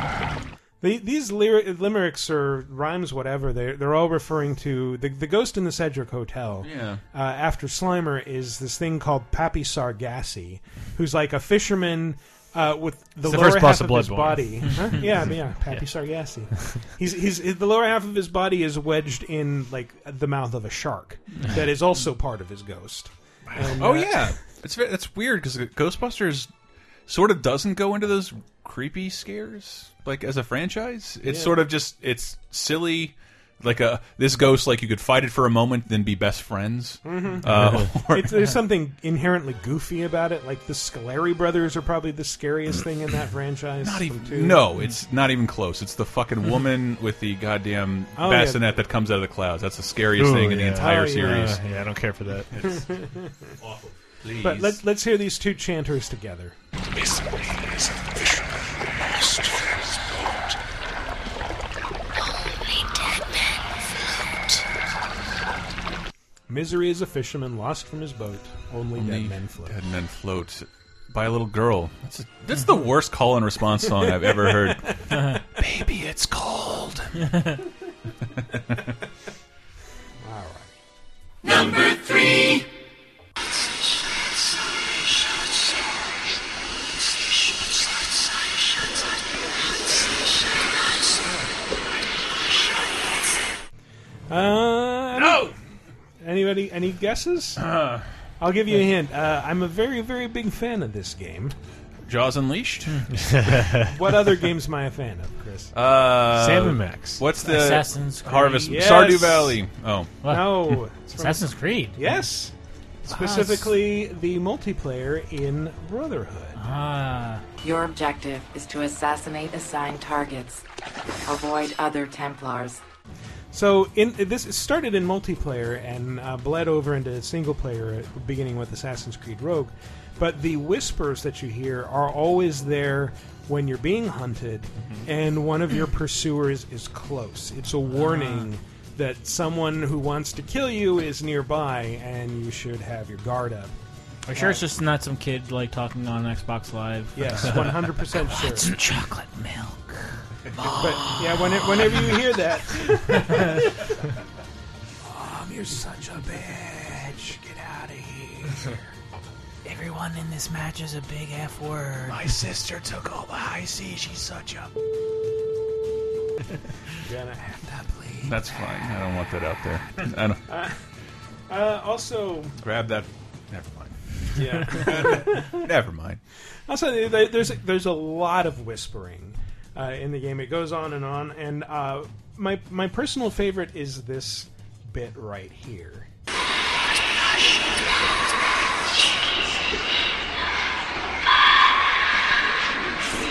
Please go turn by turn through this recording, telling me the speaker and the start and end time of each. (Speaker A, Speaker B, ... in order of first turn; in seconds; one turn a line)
Speaker A: 0.8-24.4
Speaker B: 6.6-7.0
Speaker C: 13.2-15.2
Speaker B: 23.6-26.5
Speaker B: 27.1-38.5
Speaker A: 31.2-31.6
Speaker A: 37.0-44.7
Speaker C: 37.5-37.9
Speaker B: 43.8-51.6
Speaker A: 48.2-48.7
Speaker C: 50.1-52.7
Speaker A: 50.7-51.6
Speaker A: 52.7-53.5
Speaker B: 53.6-54.8
Speaker A: 54.4-56.5
Speaker B: 57.0-58.5
Speaker B: 59.3-59.6
Speaker A: 66.5-69.8
Speaker B: 69.0-77.4
Speaker B: 78.5-78.8
Speaker A: 80.2-80.7
Speaker B: 91.2-91.5
Speaker A: 94.3-95.5
Speaker B: 95.2-95.5
Speaker A: 96.2-97.7
Speaker B: 97.6-98.1
Speaker A: 98.4-101.5
Speaker B: 102.1-103.0
Speaker C: 103.1-104.0
Speaker A: 103.8-105.7
Speaker B: 105.7-110.2
Speaker C: 106.3-107.2
Speaker D: 107.4-109.0
Speaker A: 108.7-109.6
Speaker D: 110.2-112.2
Speaker A: 110.3-112.5
Speaker A: 113.1-116.6
Speaker D: 113.1-113.7
Speaker D: 116.6-117.4
Speaker E: 117.6-120.6
Speaker E: 121.3-122.8
Speaker A: 123.5-143.7
Speaker B: 134.8-135.1
Speaker D: 137.9-138.5
Speaker D: 144.3-150.0
Speaker A: 144.3-144.6
Speaker A: 147.2-148.7
Speaker D: 150.6-151.6
Speaker A: 150.7-153.7
Speaker A: 155.0-158.8
Speaker D: 159.7-162.2
Speaker B: 162.1-164.7
Speaker A: 167.0-168.5
Speaker B: 168.2-170.4
Speaker A: 170.5-170.8
Speaker A: 171.5-172.6
Speaker B: 172.6-176.2
Speaker A: 174.3-175.7
Speaker A: 176.7-186.1